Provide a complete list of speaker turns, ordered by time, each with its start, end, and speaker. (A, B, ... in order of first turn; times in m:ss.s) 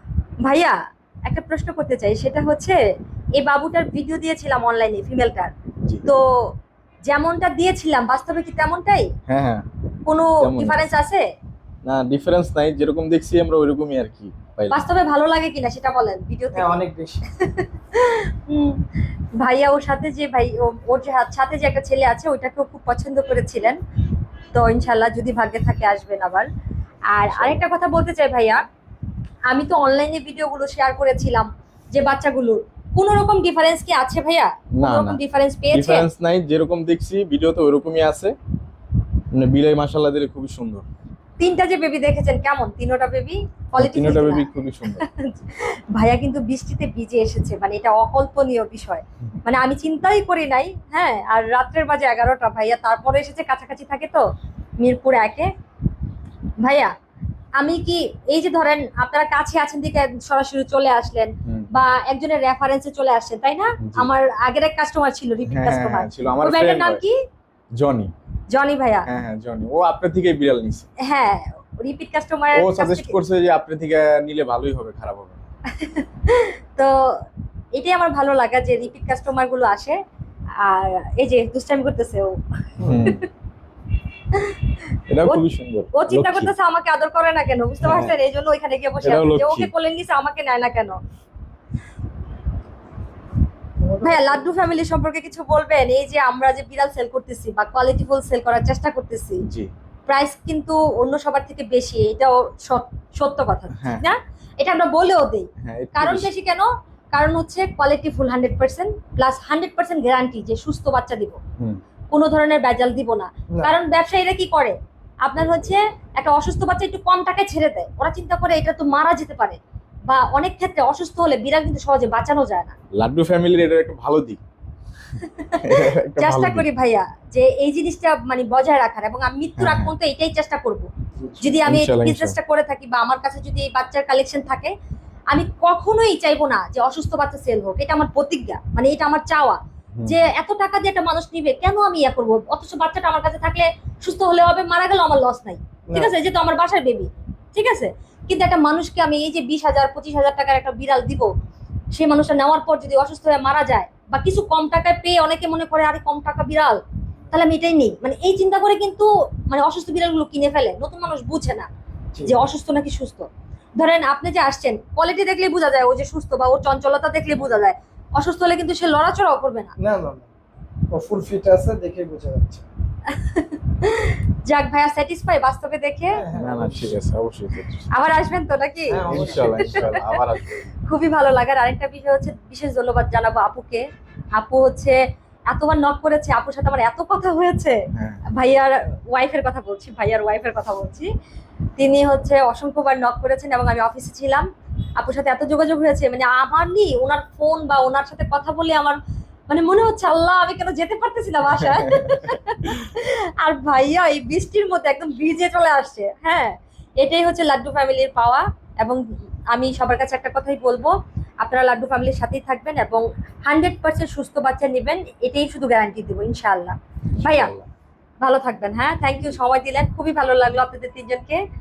0:00.4-0:00.8 A
0:01.3-0:02.8 A
0:03.4-0:05.5 A
0:07.1-0:09.1 A
0:09.3-0:09.7 B
0:10.1-0:11.2 A
0:10.4-0:10.9 B
0:11.8-0:14.8 B
0:14.7-0:16.8 A
0:16.5-0:17.2 C
0:17.3-0:18.8 A
0:19.4-0:23.8 A
0:24.5-0:26.5 A
0:27.1-0:28.6 A
0:27.3-0:27.6 B
0:29.5-0:36.1 A
0:34.8-0:35.2 B
0:35.7-0:38.4 B
0:39.3-0:40.9 B
0:41.4-0:54.2 A
0:43.8-0:45.0 B
0:54.8-0:55.5 A
0:56.6-0:56.9 A
0:57.6-1:07.2 A
1:03.8-1:04.1 B
1:05.5-1:07.0 B
1:07.8-1:08.1 B
1:08.5-1:09.1 A
1:09.1-1:10.9 B
1:11.0-1:13.2 A
1:12.5-1:15.4 B
1:15.7-1:17.0 A
1:17.8-1:20.0 A
1:20.6-1:22.4 A
1:22.8-1:23.3 B
1:22.8-1:23.1 C
1:24.3-1:25.4 A
1:25.1-1:26.5 B
1:25.9-1:31.0 A
1:27.8-1:28.1 B
1:29.0-1:29.7 B
1:33.8-1:34.5 C
1:34.0-1:39.4 A
1:39.5-1:39.7 B
1:40.1-1:51.4 A
1:43.8-1:44.1 B
1:45.6-1:46.3 B
1:52.1-2:02.8 A
2:03.0-2:04.4 B
2:05.2-2:10.9 A
2:05.6-2:06.7 B
2:09.6-2:09.9 B
2:11.2-2:11.6 C
2:11.4-2:14.7 A
2:11.6-2:12.4 B
2:15.3-2:31.3 A
2:20.0-2:20.3 B
2:25.9-2:26.2 C
2:32.0-2:36.8 A
2:37.3-2:41.7 A
2:42.1-2:42.4 C
2:42.2-2:49.7 A
2:49.8-2:50.3 C
2:50.9-2:52.6 C
2:53.1-2:56.2 A
2:56.1-2:57.0 C
2:56.3-2:57.9 B
2:57.9-3:03.8 A
2:58.9-2:59.8 C
2:59.1-3:00.7 B
3:04.4-3:05.0 A
3:05.5-3:07.8 A
3:07.9-3:08.2 B
3:08.3-3:11.1 A
3:11.8-3:14.5 A
3:15.0-3:19.0 A
3:19.5-3:29.0 A
3:21.6-3:22.3 B
3:29.5-3:37.5 A
3:37.2-3:37.7 B
3:38.2-3:41.4 A